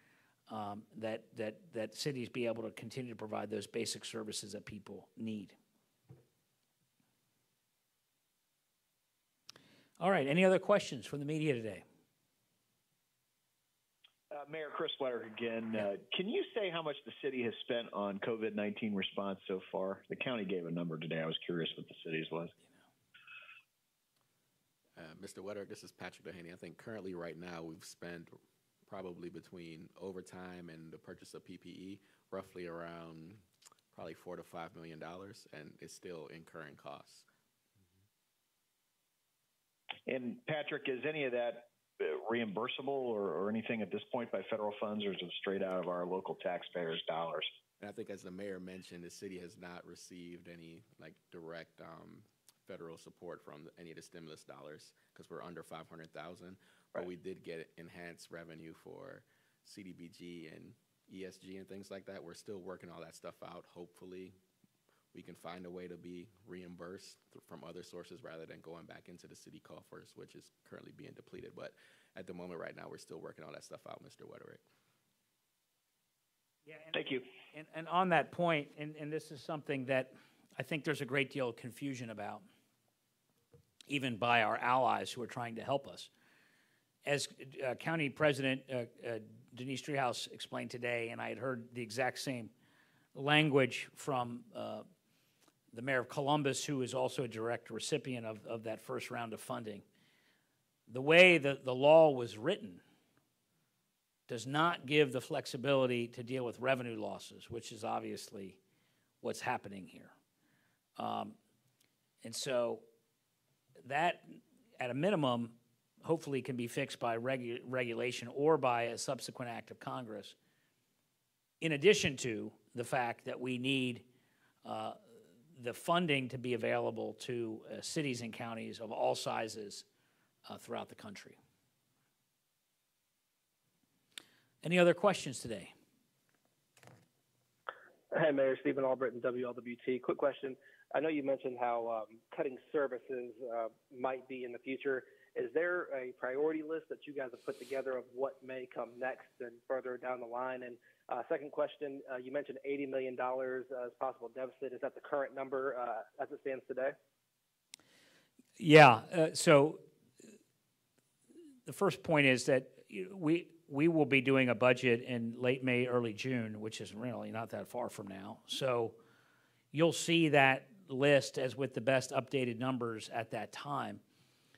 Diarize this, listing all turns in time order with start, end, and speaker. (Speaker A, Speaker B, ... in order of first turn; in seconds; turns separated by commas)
Speaker A: 0.5-5.5, Speaker A: 10.0-11.8, Speaker B: 14.3-22.5, Speaker C: 25.0-28.3, Speaker C: 28.9-37.3, Speaker B: 40.1-47.5, Speaker C: 47.8-64.4, Speaker C: 65.1-74.6, Speaker A: 76.7-77.0, Speaker B: 76.9-77.2, Speaker A: 77.5-82.4, Speaker A: 83.9-86.1, Speaker A: 87.1-92.5, Speaker A: 93.2-94.8, Speaker A: 95.7-99.8, Speaker A: 100.9-102.8, Speaker A: 104.3-108.6, Speaker A: 109.2-110.1, Speaker A: 111.0-111.4, Speaker A: 112.2-112.8, Speaker A: 113.8-120.3, Speaker A: 121.6-124.0, Speaker A: 124.7-125.0, Speaker A: 125.6-129.8, Speaker A: 130.5-131.4, Speaker A: 134.6-135.7, Speaker D: 138.1-156.9, Speaker A: 158.6-159.8, Speaker A: 161.7-169.0, Speaker A: 169.7-174.0